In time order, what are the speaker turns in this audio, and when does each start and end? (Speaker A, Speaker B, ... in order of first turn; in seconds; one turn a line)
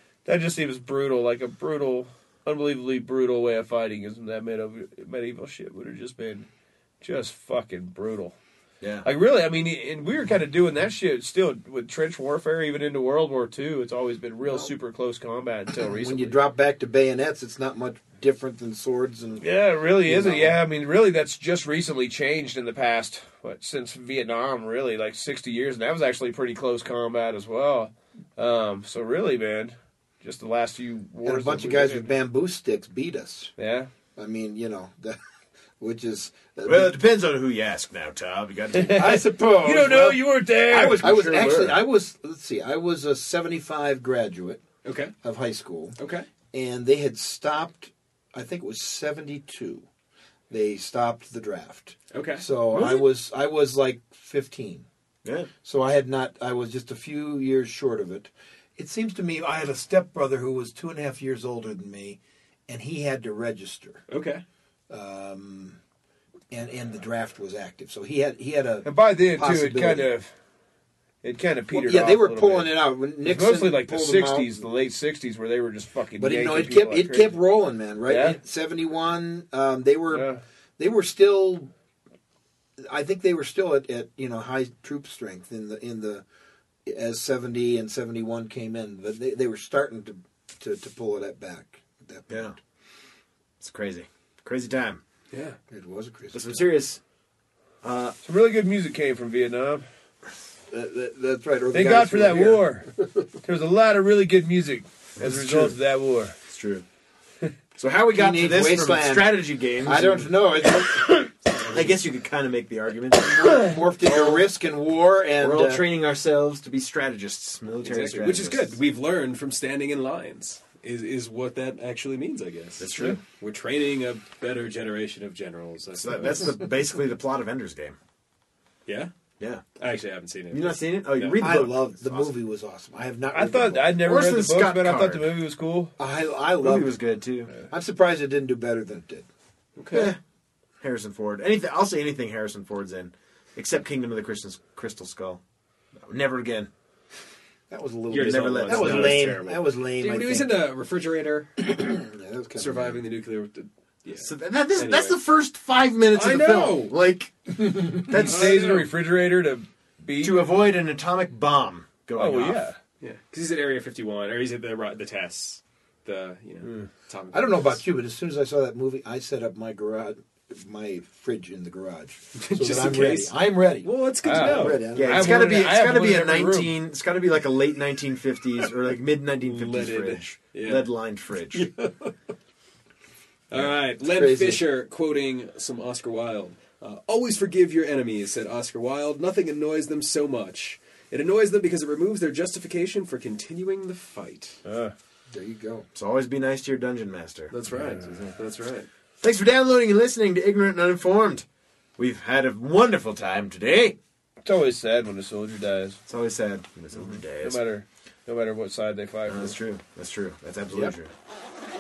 Speaker A: 0.2-6.5
Speaker A: 7.0-8.3
Speaker B: 8.8-9.1
Speaker A: 9.0-16.4
Speaker C: 15.8-19.4
Speaker A: 19.4-32.1
Speaker C: 20.0-20.6
Speaker C: 31.2-33.5
Speaker A: 33.6-33.9
Speaker C: 34.2-35.2
Speaker C: 35.8-37.0
Speaker B: 36.6-39.2
Speaker A: 38.7-41.3
Speaker C: 39.0-44.6
Speaker B: 40.9-41.8
Speaker D: 44.8-45.1
Speaker C: 45.2-46.0
Speaker D: 46.0-46.3
Speaker C: 46.5-49.9
Speaker C: 50.5-54.9
Speaker D: 52.1-52.8
Speaker B: 52.7-53.0
Speaker C: 55.6-64.0
Speaker D: 64.1-64.4
Speaker C: 64.9-65.8
Speaker C: 66.5-70.1
Speaker A: 68.8-70.3
Speaker A: 71.2-77.4
Speaker C: 71.7-74.6
Speaker C: 76.2-80.3
Speaker A: 78.1-78.4
Speaker A: 80.1-80.4
Speaker C: 80.8-81.7
Speaker C: 82.8-86.2
Speaker C: 86.9-92.6
Speaker B: 92.3-92.5
Speaker B: 93.6-95.0
Speaker D: 95.3-95.6
Speaker C: 95.7-96.7
Speaker B: 96.3-97.0
Speaker B: 97.8-98.2
Speaker A: 98.2-99.8
Speaker C: 100.7-102.7
Speaker A: 101.7-102.9
Speaker A: 103.4-106.4
Speaker B: 105.2-105.7
Speaker B: 106.5-106.8
Speaker B: 107.8-110.3
Speaker C: 108.1-111.3
Speaker B: 111.7-114.5
Speaker C: 113.2-115.8
Speaker B: 115.4-118.8
Speaker D: 117.8-126.7
Speaker B: 122.8-123.2
Speaker B: 126.0-128.0
Speaker D: 128.9-129.1
Speaker D: 129.8-131.5
Speaker B: 130.5-132.3
Speaker C: 131.4-134.0
Speaker A: 133.3-135.9
Speaker B: 133.9-135.3
Speaker C: 136.0-137.0
Speaker B: 136.6-137.5
Speaker C: 137.7-139.3
Speaker D: 139.8-140.2
Speaker B: 139.9-140.2
Speaker B: 140.8-145.4
Speaker B: 146.1-146.7
Speaker C: 147.7-150.6
Speaker D: 148.1-151.7
Speaker B: 148.1-149.4
Speaker C: 151.6-153.0
Speaker D: 152.6-155.2
Speaker B: 154.2-158.7
Speaker D: 156.1-156.9
Speaker C: 157.6-158.0
Speaker A: 158.1-160.5
Speaker D: 158.1-158.9
Speaker B: 160.2-162.7
Speaker A: 162.2-162.8
Speaker D: 163.0-167.8
Speaker A: 166.6-166.9
Speaker C: 167.3-175.3
Speaker D: 172.4-174.9
Speaker A: 174.2-176.7
Speaker B: 174.9-181.7
Speaker D: 179.4-180.9
Speaker D: 183.5-194.6
Speaker C: 184.0-184.7
Speaker A: 194.7-194.9
Speaker C: 195.3-195.8
Speaker B: 195.9-198.3
Speaker D: 197.5-198.9
Speaker B: 199.2-201.4
Speaker B: 202.0-204.0
Speaker A: 204.4-206.0
Speaker B: 206.1-207.6
Speaker A: 206.9-209.6
Speaker B: 209.3-211.1